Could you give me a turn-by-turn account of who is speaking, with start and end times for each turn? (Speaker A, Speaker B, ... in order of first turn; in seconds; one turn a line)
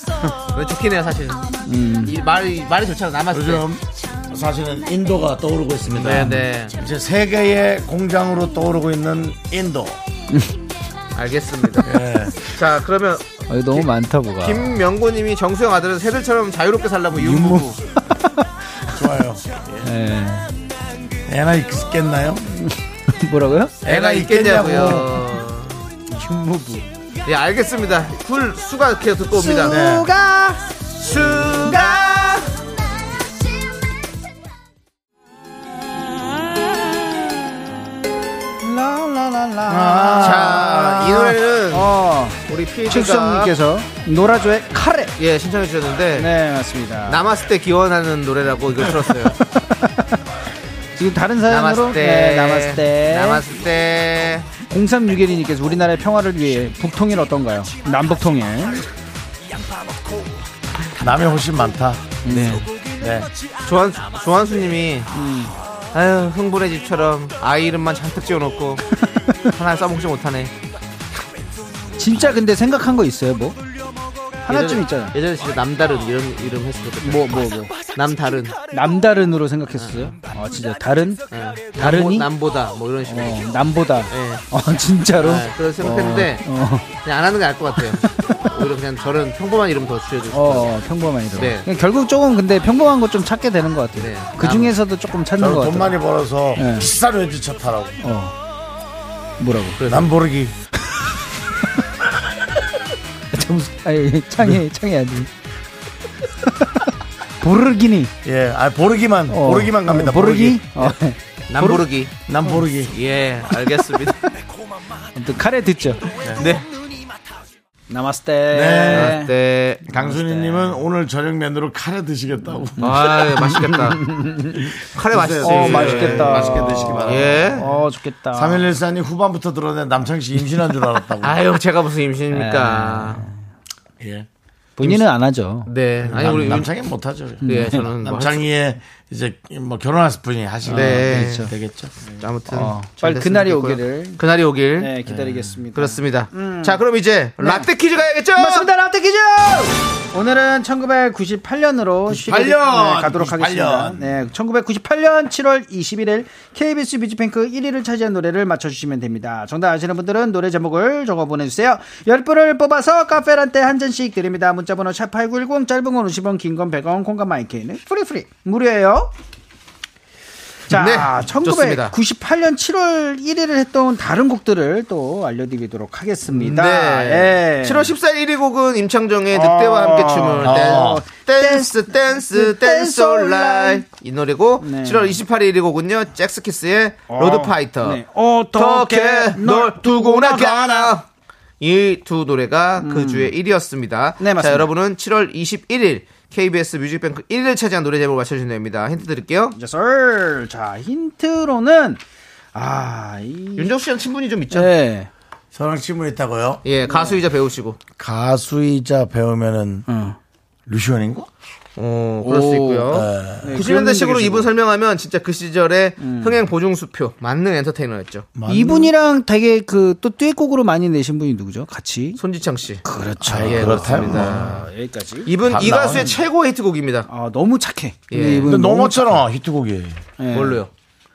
Speaker A: 0.2-1.5
Speaker B: 1.6-2.1
Speaker A: 2.0-3.7
Speaker C: 3.3-10.0
Speaker A: 5.9-6.7
Speaker A: 11.1-13.9
Speaker C: 11.8-12.4
Speaker B: 13.5-14.8
Speaker A: 14.4-17.8
Speaker B: 17.1-18.5
Speaker C: 18.9-19.9
Speaker B: 19.8-20.5
Speaker C: 21.3-22.5
Speaker B: 22.5-23.8
Speaker A: 23.8-25.9
Speaker C: 23.8-25.1
Speaker B: 26.1-26.8
Speaker A: 27.2-29.8
Speaker B: 29.3-32.1
Speaker C: 29.7-30.1
Speaker A: 31.0-32.5
Speaker B: 38.6-40.7
Speaker C: 39.7-41.4
Speaker A: 40.2-41.9
Speaker B: 41.7-45.1
Speaker A: 42.5-43.5
Speaker A: 45.2-46.3
Speaker B: 46.2-47.2
Speaker A: 47.0-49.4
Speaker B: 49.6-50.2
Speaker B: 51.0-53.4
Speaker A: 51.5-54.5
Speaker B: 54.6-58.8
Speaker C: 61.0-62.2
Speaker B: 62.2-62.7
Speaker C: 62.9-63.3
Speaker A: 63.6-65.1
Speaker B: 65.1-65.5
Speaker A: 65.9-68.8
Speaker A: 69.5-70.5
Speaker B: 72.0-73.6
Speaker B: 74.5-75.1
Speaker A: 74.5-78.5
Speaker B: 77.0-77.8
Speaker B: 78.7-81.2
Speaker A: 79.8-80.1
Speaker A: 81.3-83.4
Speaker B: 81.7-82.3
Speaker B: 83.1-87.0
Speaker A: 84.1-84.4
Speaker A: 85.2-86.4
Speaker A: 87.0-90.7
Speaker B: 87.8-88.5
Speaker B: 90.3-95.9
Speaker A: 91.3-91.7
Speaker A: 94.0-94.8
Speaker C: 95.4-98.0
Speaker B: 96.6-96.9
Speaker B: 98.0-98.3
Speaker B: 99.4-99.8
Speaker A: 99.8-100.1
Speaker C: 99.8-100.5
Speaker B: 103.3-105.3
Speaker B: 107.4-108.1
Speaker C: 108.2-110.8
Speaker B: 109.3-111.9
Speaker A: 111.5-112.1
Speaker C: 112.3-112.9
Speaker A: 112.9-114.2
Speaker B: 115.1-116.2
Speaker A: 116.4-116.7
Speaker B: 117.9-119.3
Speaker C: 118.5-119.2
Speaker A: 118.9-119.9
Speaker C: 119.8-123.3
Speaker B: 119.9-120.8
Speaker A: 122.8-124.0
Speaker B: 123.3-124.7
Speaker C: 124.7-127.6
Speaker A: 124.8-127.8
Speaker B: 125.4-128.7
Speaker C: 128.3-131.4
Speaker A: 131.2-133.3
Speaker B: 132.3-133.3
Speaker C: 134.0-134.3
Speaker B: 134.8-136.6
Speaker A: 135.7-136.7
Speaker C: 136.0-141.9
Speaker B: 137.4-137.8
Speaker A: 137.4-138.5
Speaker B: 140.7-141.5
Speaker A: 140.7-141.5
Speaker A: 142.2-144.9
Speaker B: 142.5-144.2
Speaker B: 144.8-146.8
Speaker C: 145.1-145.5
Speaker A: 145.7-148.7
Speaker B: 147.4-147.7
Speaker B: 148.3-169.1
Speaker C: 152.1-154.2
Speaker B: 170.7-177.9
Speaker A: 170.7-171.9
Speaker A: 176.3-188.0
Speaker B: 179.3-183.8
Speaker C: 180.4-181.0
Speaker B: 184.6-185.2
Speaker B: 187.1-190.9
Speaker A: 188.5-191.1
Speaker A: 191.6-199.5
Speaker B: 192.8-193.3
Speaker B: 194.2-194.7
Speaker B: 199.5-202.0
Speaker B: 202.5-203.7
Speaker A: 203.6-204.7
Speaker B: 204.5-205.1
Speaker C: 205.5-206.6
Speaker A: 206.6-207.8
Speaker C: 208.0-209.9
Speaker B: 209.9-210.2
Speaker C: 210.7-211.3
Speaker A: 211.8-218.3
Speaker B: 212.2-214.5
Speaker C: 212.9-213.6
Speaker B: 216.0-216.4
Speaker C: 218.3-218.9
Speaker B: 218.5-222.2
Speaker A: 222.2-224.6
Speaker B: 222.8-226.2
Speaker C: 223.2-224.6
Speaker A: 225.2-227.1
Speaker C: 225.4-226.2
Speaker B: 227.1-229.2
Speaker A: 228.1-228.5
Speaker C: 228.4-230.0
Speaker B: 230.2-230.6
Speaker A: 230.3-230.7